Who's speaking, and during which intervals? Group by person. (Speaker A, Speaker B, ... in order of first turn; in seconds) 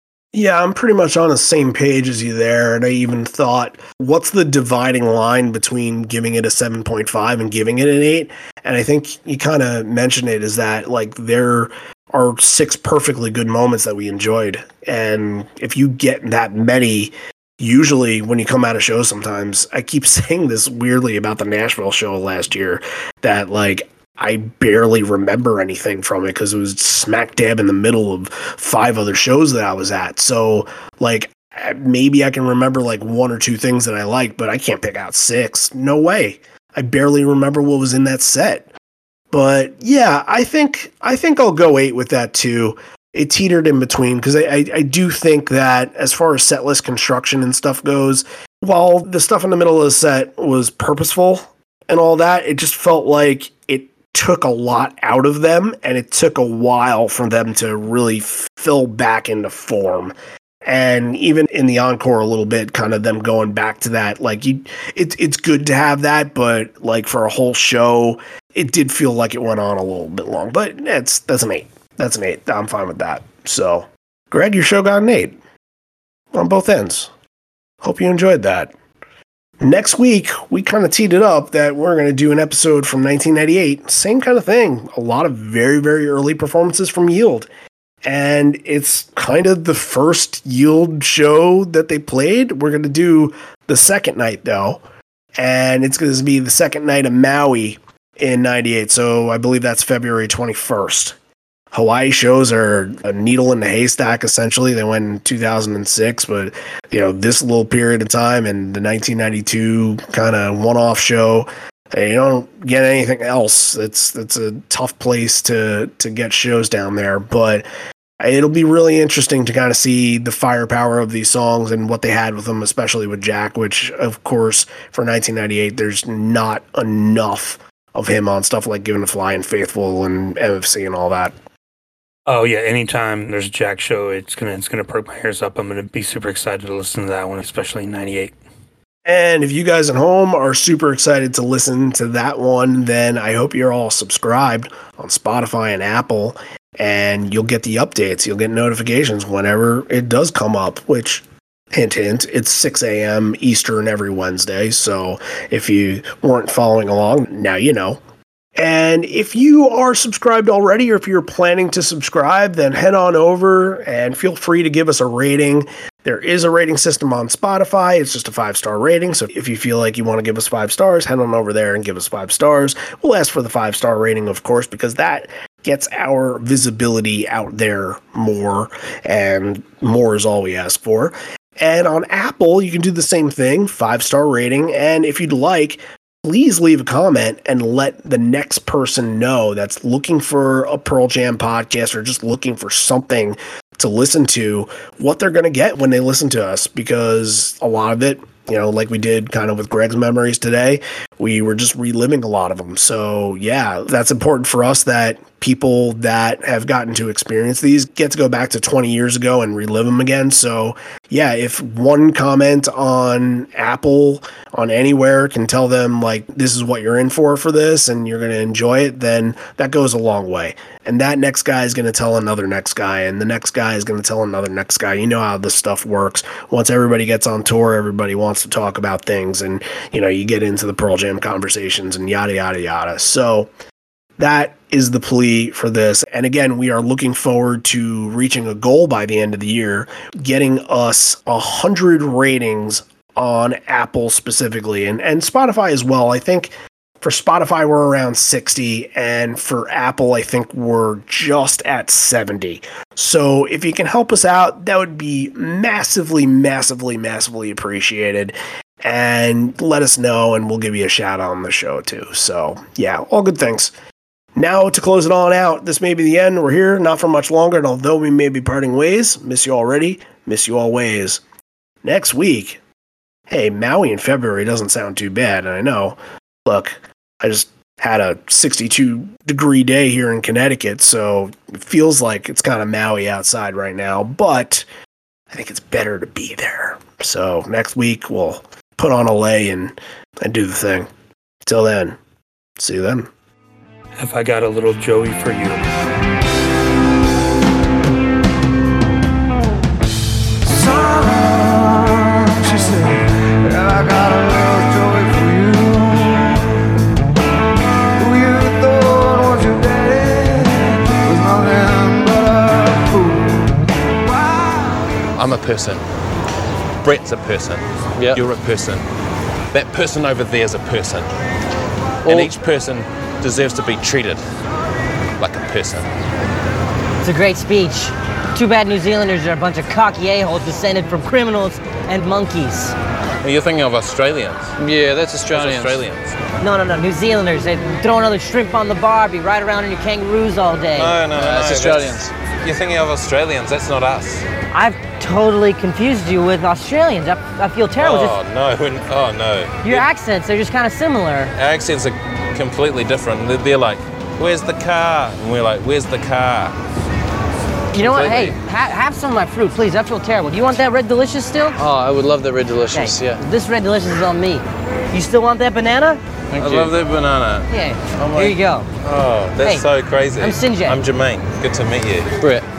Speaker A: 0.3-38.7, 39.3-60.1, 60.6-75.4, 76.3-77.1, 77.8-78.7, 79.6-87.5, 88.0-94.8, 95.4-101.2, 101.7-117.7, 118.2-131.3, 139.1-158.0, 158.6-233.5, 234.2-263.7, 264.4-271.2, 271.8-272.6, 273.3-284.7, 285.3-290.9, 291.4-292.0, 292.6-293.1
Speaker B: 132.3-138.3, 294.0-295.6
Speaker C: 300.4-306.9, 307.9-314.5
Speaker D: 315.2-315.8, 316.8-318.8, 319.5-321.1, 322.1-324.2, 325.2-325.9, 333.2-334.6, 335.2-336.2, 340.7-344.2, 347.8-349.9, 351.4-356.5, 357.8-358.4, 366.3-372.2
Speaker E: 318.0-318.3, 322.1-322.4, 334.6-335.9, 341.1-342.1, 361.6-363.2, 366.3-366.8, 372.2-372.5
Speaker F: 327.0-332.8, 336.4-341.1, 344.5-348.2, 349.6-351.3, 357.7-361.6, 362.7-366.0, 367.5-368.7, 369.4-370.8